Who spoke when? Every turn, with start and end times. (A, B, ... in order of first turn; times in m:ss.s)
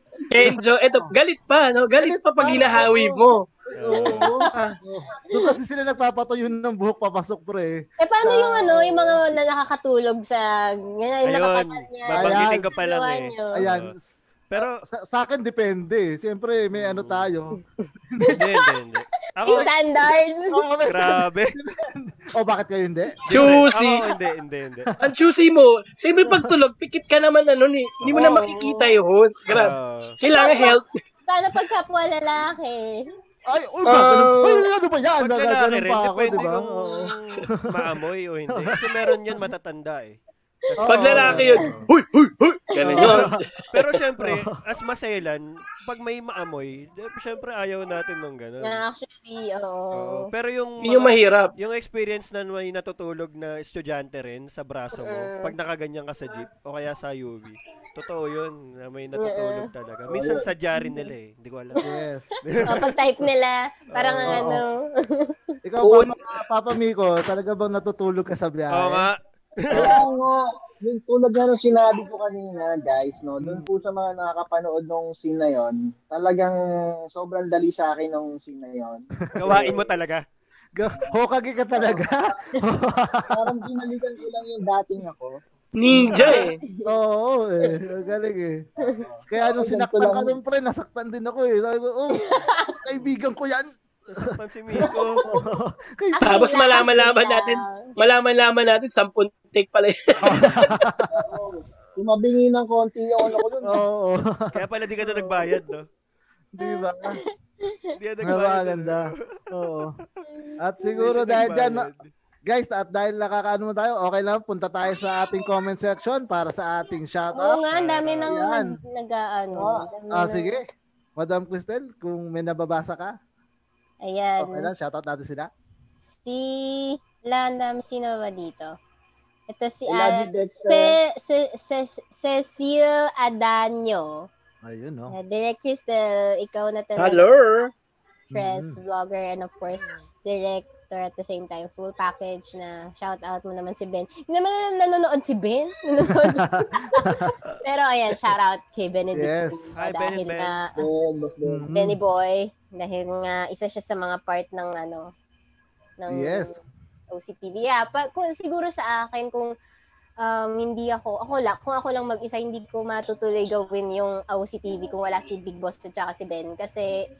0:00.3-0:03.4 A
0:02.0-0:03.2 B
0:03.7-0:04.3 C
0:03.8-0:09.3 B
0:03.9-0:04.5 D
0:05.3-0:05.6 D
0:08.0-0:13.6 D
0:11.2-0:13.9 C
0:12.1-0:12.7 B
0:13.5-0:17.6 B
0:14.5-0:14.8 C
0:16.7-0:17.3 C
0:18.1-0:18.4 B
0:18.2-0:18.6 D
0:18.3-0:19.7 C
0:19.4-0:20.6 D
0:20.5-0:23.4 B
0:20.8-0:21.6 C
0:23.3-0:24.9 C
0:23.3-0:24.0 A
0:25.0-0:30.9 A
0:28.0-0:28.9 C
0:29.5-0:30.2 C
0:30.3-0:33.0 D
0:33.5-0:37.9 B
0:33.8-0:34.7 A
0:35.2-0:41.8 C
0:38.5-0:38.8 B
0:40.8-0:41.9 B
0:40.8-0:43.5 A
0:42.8-0:48.8 C
0:42.8-0:43.1 D
0:42.8-0:43.3 B
0:44.2-0:44.5 B
0:48.6-0:50.3 D
0:49.9-1:01.9 C
0:50.8-0:51.5 A
0:54.9-0:55.5 D
0:59.2-0:59.7 D
1:00.1-1:00.5 E
1:00.7-1:01.1 D
1:01.8-1:02.3 B
1:02.4-1:03.0 C
1:02.6-1:05.4 D
1:03.9-1:04.5 C
1:04.3-1:04.6 B
1:05.6-1:09.1 B
1:05.8-1:06.2 A
1:08.7-1:10.0 C
1:09.7-1:16.5 E
1:09.7-1:10.0 B
1:13.4-1:13.7 B
1:17.1-1:19.8 E
1:19.3-1:19.7 B
1:19.4-1:20.2 C
1:20.7-1:23.5 B
1:21.7-1:22.4 E
1:23.3-1:25.4 E
1:25.7-1:26.6 A
1:25.9-1:28.6 B
1:25.9-1:26.3 E
1:26.1-1:26.9 D
1:28.8-1:30.4 E
1:29.3-1:36.4 B
1:32.2-1:32.8 D
1:34.1-1:35.2 C
1:36.2-1:37.9 D
1:36.2-1:40.6 A
1:40.2-1:41.3 B
1:41.1-1:43.8 E
1:43.6-1:45.5 B
1:44.5-1:45.8 C
1:46.5-1:47.2 B
1:46.6-1:47.9 D
1:48.0-1:50.0 C
1:48.2-1:49.9 B
1:50.3-1:51.1 D
1:50.6-1:51.9 B
1:51.0-1:52.1 C
1:52.4-1:57.6 B
1:57.3-2:00.6 D
1:57.7-1:58.4 C
1:58.3-1:58.8 B
1:59.6-1:59.9 E
2:00.1-2:00.6 B
2:01.2-2:03.2 B
2:04.0-2:04.7 D
2:04.4-2:05.5 B
2:06.1-2:08.7 D
2:09.5-2:14.3 D
2:09.9-2:11.0 E
2:14.6-2:15.1 B
2:15.1-2:17.2 D
2:17.0-2:17.7 A
2:18.3-2:18.8 B
2:18.3-2:30.8 D
2:26.3-2:27.4 B
2:29.1-2:29.7 B
2:29.7-2:30.7 C
2:30.8-2:31.7 E
2:31.4-2:32.0 B
2:31.7-2:35.1 D
2:36.0-2:36.6 D
2:36.1-2:36.6 B
2:37.1-2:39.5 D
2:40.2-2:47.0 D